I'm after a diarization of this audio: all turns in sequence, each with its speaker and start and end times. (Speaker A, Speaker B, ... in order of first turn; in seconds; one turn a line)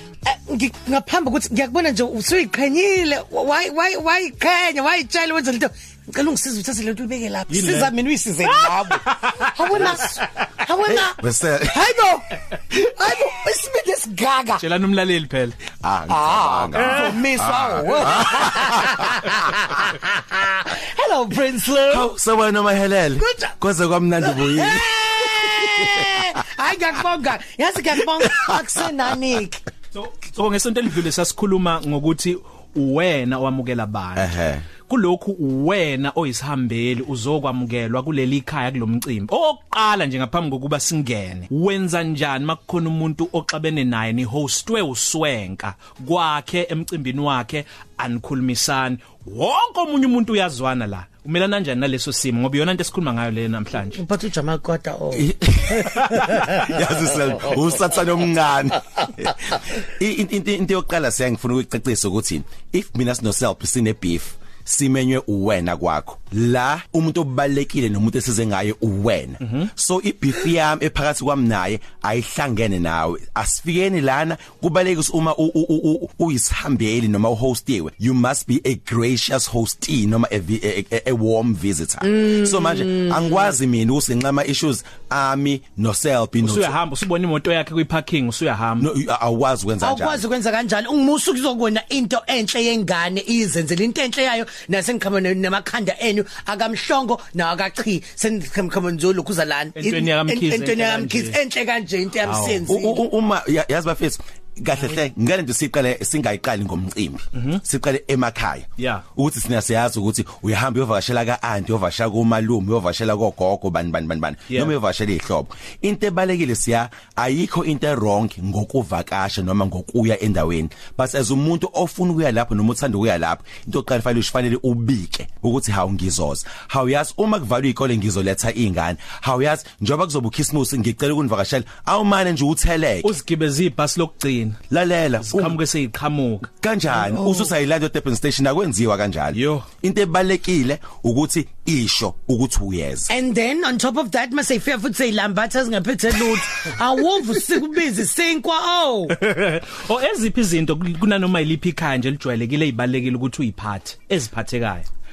Speaker A: 0.2-14.6
Speaker B: 7.5-7.9
Speaker B: 8.4-10.3
Speaker C: 10.9-11.9
Speaker B: 14.6-15.6
Speaker C: 15.8-19.4
Speaker A: 16.1-22.1
Speaker C: 21.9-26.4
Speaker A: 23.2-23.5
Speaker A: 24.2-29.6
Speaker C: 28.2-28.7
Speaker B: 29.9-34.3
Speaker C: 34.1-34.7
Speaker B: 34.9-54.0
Speaker A: 53.9-56.5
Speaker C: 55.1-86.8
Speaker B: 69.4-69.7
Speaker A: 82.0-83.3
Speaker B: 86.4-88.9
Speaker C: 88.8-90.2
Speaker A: 89.8-103.0
Speaker B: 99.8-101.4
Speaker B: 102.2-102.6
Speaker C: 102.7-133.1
Speaker B: 107.3-107.6
Speaker B: 108.8-109.0
Speaker B: 114.5-114.7
Speaker B: 133.0-134.6
Speaker C: 134.7-135.6
Speaker B: 135.2-136.5
Speaker C: 136.6-143.1
Speaker B: 139.3-139.7
Speaker A: 143.1-149.2
Speaker B: 149.1-154.8